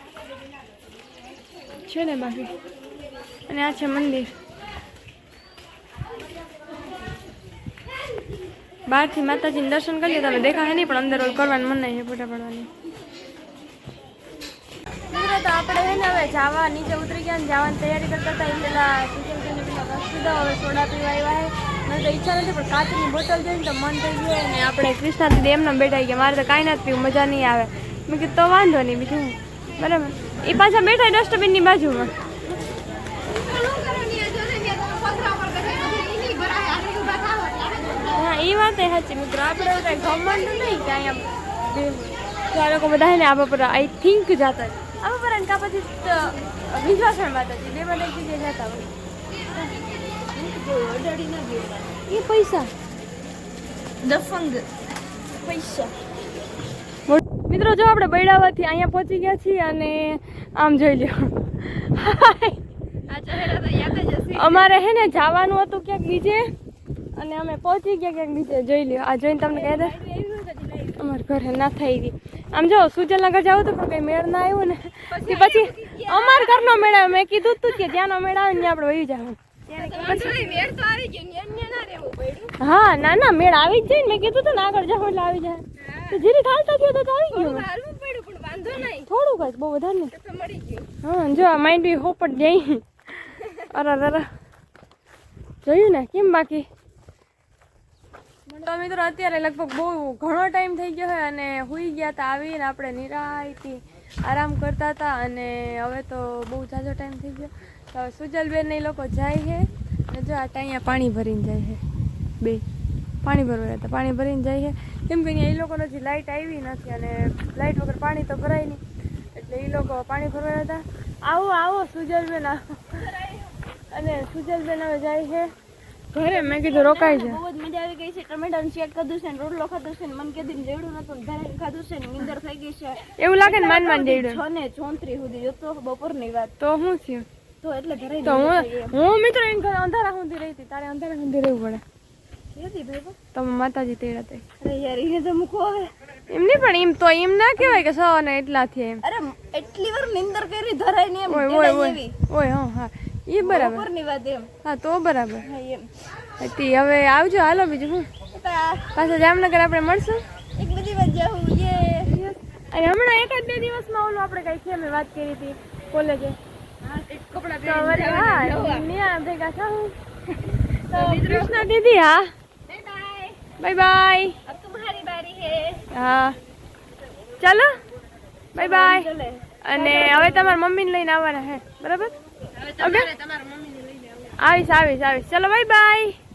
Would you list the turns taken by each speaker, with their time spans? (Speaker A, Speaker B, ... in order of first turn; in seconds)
Speaker A: 1.9-2.5, 3.5-4.3, 8.9-12.7, 15.1-32.1, 38.1-48.9, 52.1-52.7, 57.1-62.6, 64.3-66.5, 67.1-70.0, 71.0-80.7, 82.6-87.7, 88.9-90.1, 91.0-94.3, 95.6-96.7, 98.5-111.8, 113.2-118.8, 119.3-123.1, 123.9-125.5, 126.1-127.4, 133.2-134.4, 136.6-137.2, 138.2-141.8, 143.3-144.4, 146.3-149.0, 151.3-153.9, 154.6-155.5, 156.4-158.1, 158.9-160.2, 162.1-166.4, 167.6-169.9, 170.9-172.3, 173.6-174.4, 175.9-176.4, 177.4-177.7, 178.6-179.1, 179.6-182.1, 182.8-183.1, 184.4-186.2
Speaker B: 33.3-38.2, 49.6-51.9, 54.0-54.7, 55.4-55.9, 63.1-64.7, 69.5-71.0, 75.1-77.0, 77.6-78.0, 79.7-82.5, 85.8-86.2, 87.3-89.1, 90.1-90.9, 122.9-123.6, 126.2-136.5, 137.6-138.9, 142.5-143.2, 144.6-145.9, 149.0-152.2, 153.4-154.5, 155.4-155.9, 158.3-158.9, 160.6-162.1, 166.8-168.9, 170.9-171.6, 172.7-173.4, 174.4-175.8, 178.6-180.6, 182.5-184.4